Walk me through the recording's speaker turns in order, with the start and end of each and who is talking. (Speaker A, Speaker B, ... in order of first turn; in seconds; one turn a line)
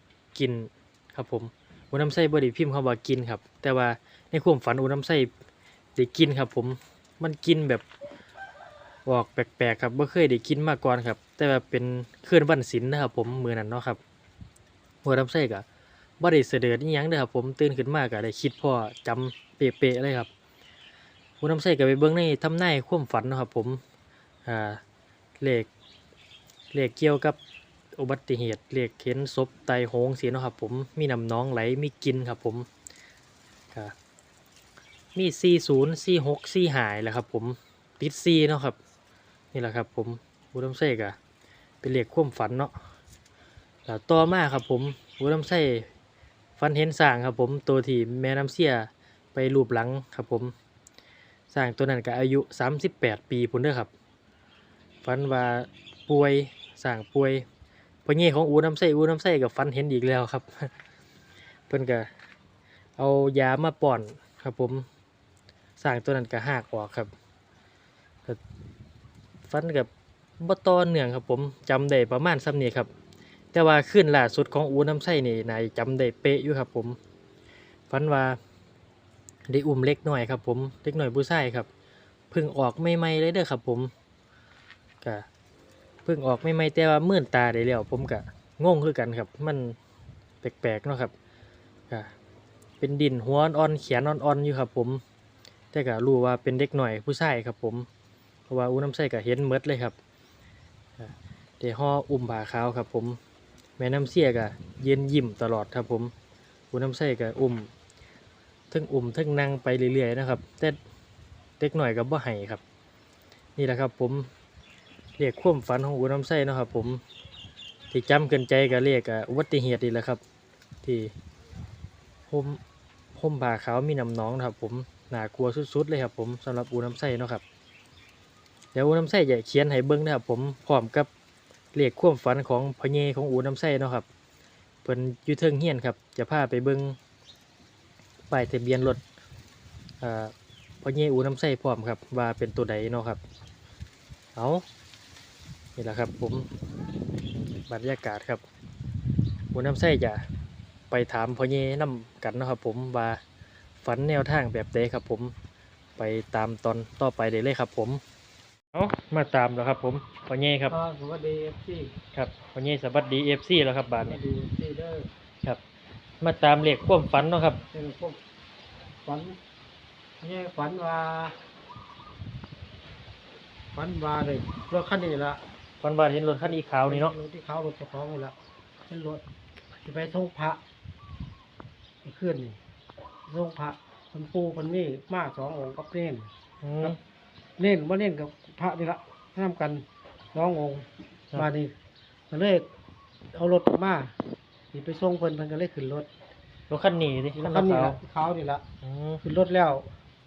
Speaker A: 0.3-5.3
Speaker A: 6.0-7.8
Speaker A: 9.1-14.0
Speaker A: 15.0-15.6
Speaker A: 16.2-20.3
Speaker A: 21.4-23.8
Speaker A: 24.4-24.8
Speaker A: 25.4-25.7
Speaker A: 26.7-27.4
Speaker A: 28.0-32.7
Speaker A: 35.1-38.8
Speaker A: 39.5-41.2
Speaker A: 41.8-42.7
Speaker A: 43.9-45.9
Speaker A: 46.6-50.5
Speaker A: 51.5-53.9
Speaker A: 55.0-57.5
Speaker A: 58.0-60.7
Speaker A: 61.7-62.1
Speaker A: 63.0-64.8
Speaker A: 65.8-67.1
Speaker A: 69.5-72.9
Speaker A: 73.5-77.0
Speaker A: 77.9-78.4
Speaker A: 79.5-81.7
Speaker A: 82.3-83.9
Speaker A: 86.0-89.8
Speaker A: 90.4-91.1
Speaker A: 92.8-95.0
Speaker A: 95.7-97.9
Speaker A: 98.5-100.0
Speaker A: 101.0-103.2
Speaker A: 103.8-106.1
Speaker A: 106.7-107.7
Speaker A: 108.7-110.8
Speaker A: 111.6-112.6
Speaker A: 113.6-114.3
Speaker A: 115.2-117.0
Speaker A: 117.9-120.2
Speaker A: 120.8-121.1
Speaker A: 122.3-122.6
Speaker A: 123.1-127.4
Speaker A: 128.7-131.1
Speaker A: 131.7-134.1
Speaker A: 134.8-137.0
Speaker A: 138.3-139.0
Speaker A: 140.0-143.2
Speaker A: 144.3-144.6
Speaker A: 145.8-146.5
Speaker A: 147.7-148.4
Speaker A: 149.5-150.2
Speaker A: 150.9-153.2
Speaker A: 153.8-155.3
Speaker A: 156.0-158.0
Speaker A: 158.7-160.8
Speaker B: 160.7-161.9
Speaker A: 162.1-164.2
Speaker B: 164.0-165.1
Speaker A: 166.2-167.6
Speaker B: 167.7-168.2
Speaker B: 169.0-169.4
Speaker B: 170.2-171.4
Speaker B: 173.7-175.4
Speaker A: 175.8-177.1
Speaker B: 176.4-178.3
Speaker B: 178.9-179.2
Speaker B: 179.8-180.6
Speaker B: 182.0-182.6
Speaker B: 183.3-186.3
Speaker A: 186.6-187.0
Speaker B: 187.6-191.7
Speaker B: 192.3-192.7
Speaker B: 193.3-194.1
Speaker B: 194.7-196.1
Speaker A: 196.7-198.0
Speaker B: 197.3-198.6
Speaker A: 198.8-199.2
Speaker B: 199.2-199.9